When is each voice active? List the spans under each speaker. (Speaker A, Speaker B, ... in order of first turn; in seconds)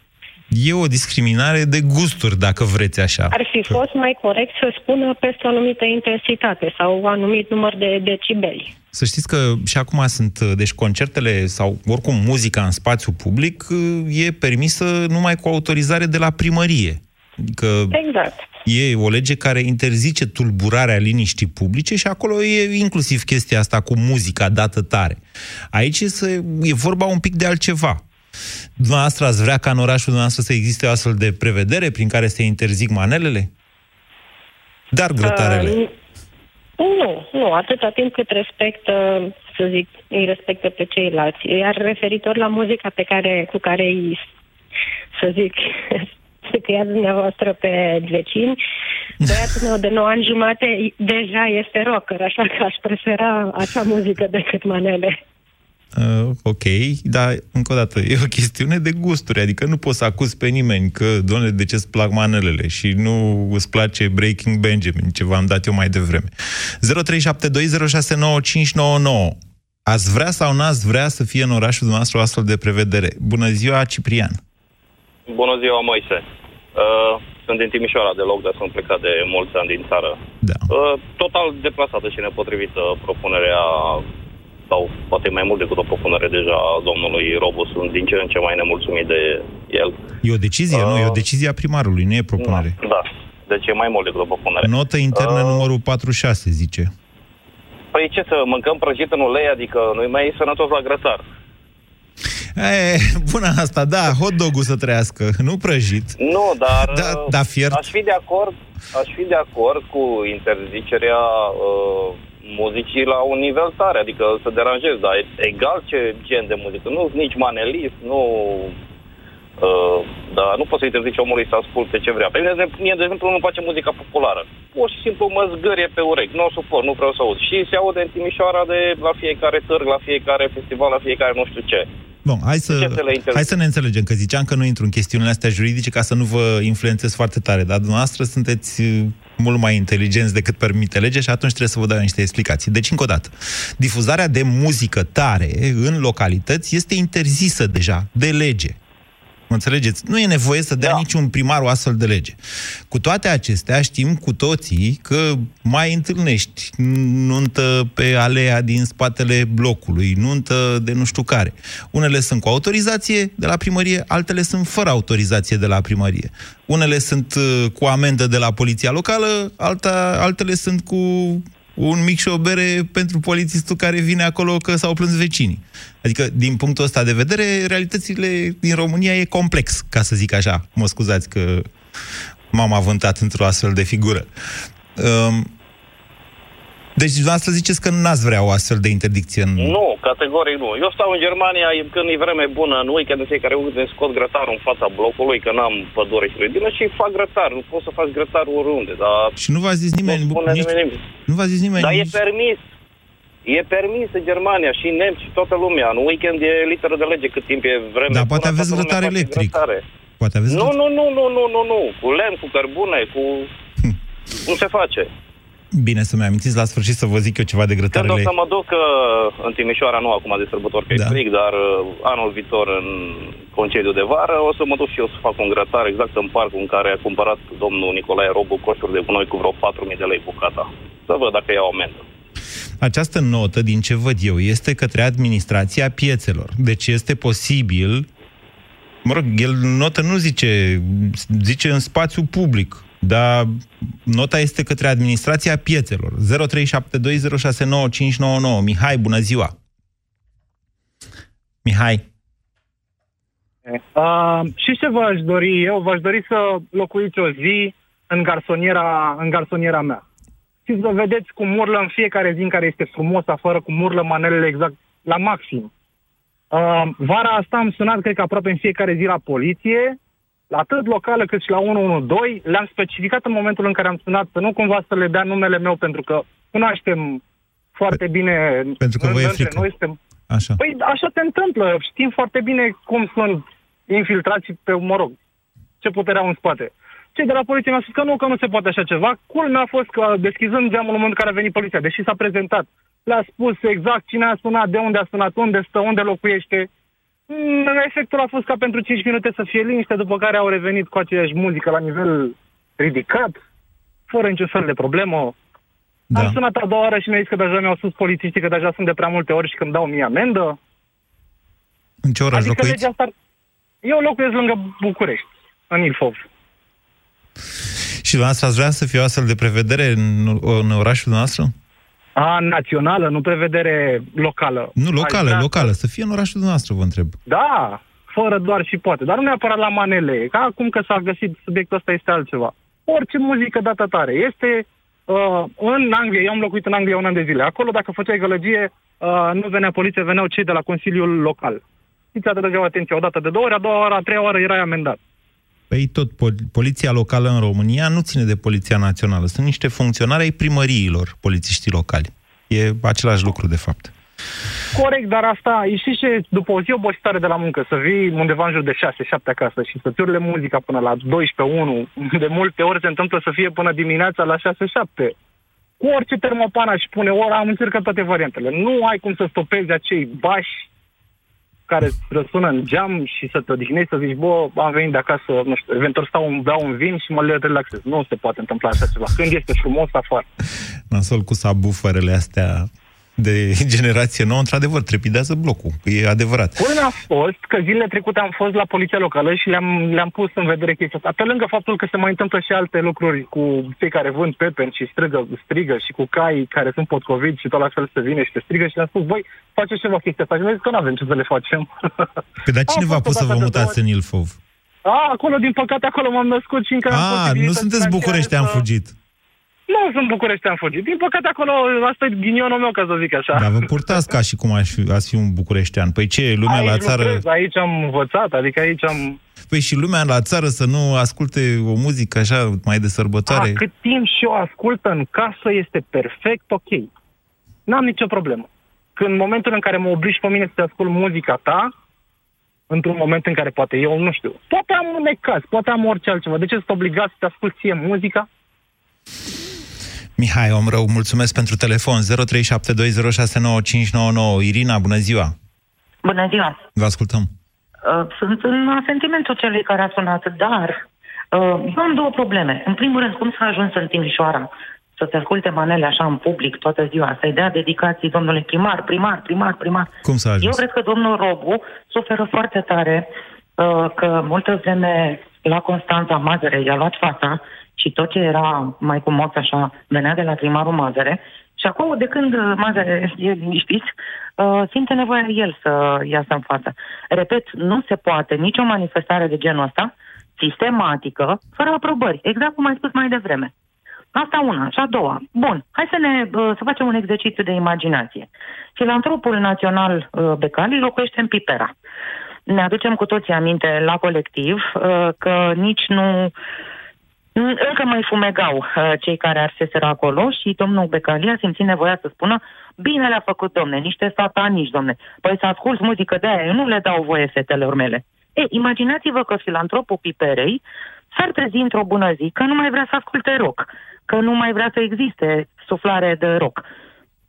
Speaker A: 0.5-3.8, 8.9-18.0, 18.6-25.2, 25.7-28.0, 28.8-33.5, 34.9-35.8, 55.9-74.4, 80.4-80.7, 90.2-92.8, 94.6-96.9, 102.5-106.2, 106.8-107.9, 132.2-148.8, 149.5-152.4, 152.9-181.7, 182.5-184.3, 184.9-185.5, 186.9-189.8, 199.4-200.7, 201.3-202.2, 208.1-209.6, 210.2-210.7, 215.7-218.3, 220.9-221.2, 232.8-238.1, 239.0-249.5, 251.6-252.0, 278.8-279.7, 280.3-280.6, 306.1-306.4, 312.0-312.8, 318.0-321.5, 324.8-327.1, 345.7-353.9, 380.9-386.6, 402.4-404.4, 406.9-408.9, 413.3-417.2, 419.5-423.6, 440.2-445.3, 446.8-447.3, 460.0-460.6
Speaker B: 3.3-8.7, 17.9-18.4, 35.2-35.9, 36.8-44.2, 45.2-48.6, 49.2-55.2
Speaker C: 75.3-76.2, 76.7-80.2, 80.7-84.0, 84.7-90.0, 90.7-91.2, 92.4-95.7, 97.9-101.2, 106.2-118.7, 119.6-131.9, 132.7-133.5, 189.6-199.3, 200.1-201.0, 201.8-202.6, 203.4-209.8, 210.5-213.5, 214.4-215.1, 217.9-232.0
Speaker D: 253.7-260.0, 260.6-265.7, 266.5-270.0, 270.5-277.2, 277.7-280.0, 280.6-285.1, 285.8-296.7, 297.3-303.4, 304.1-305.4, 306.1-310.6, 312.3-313.1, 313.8-316.2, 322.2-325.7, 327.3-341.6, 342.1-345.0, 354.7-365.1, 365.8-370.7, 371.7-380.2, 386.6-401.7, 402.7-403.8, 404.9-408.6, 409.7-414.0, 416.4-419.2, 423.3-426.9, 427.7-431.7, 432.7-438.3
Speaker E: 446.0-446.6, 447.8-459.9, 460.4-483.5, 484.1-491.7, 492.5-496.3, 497.4-510.6, 511.1-516.6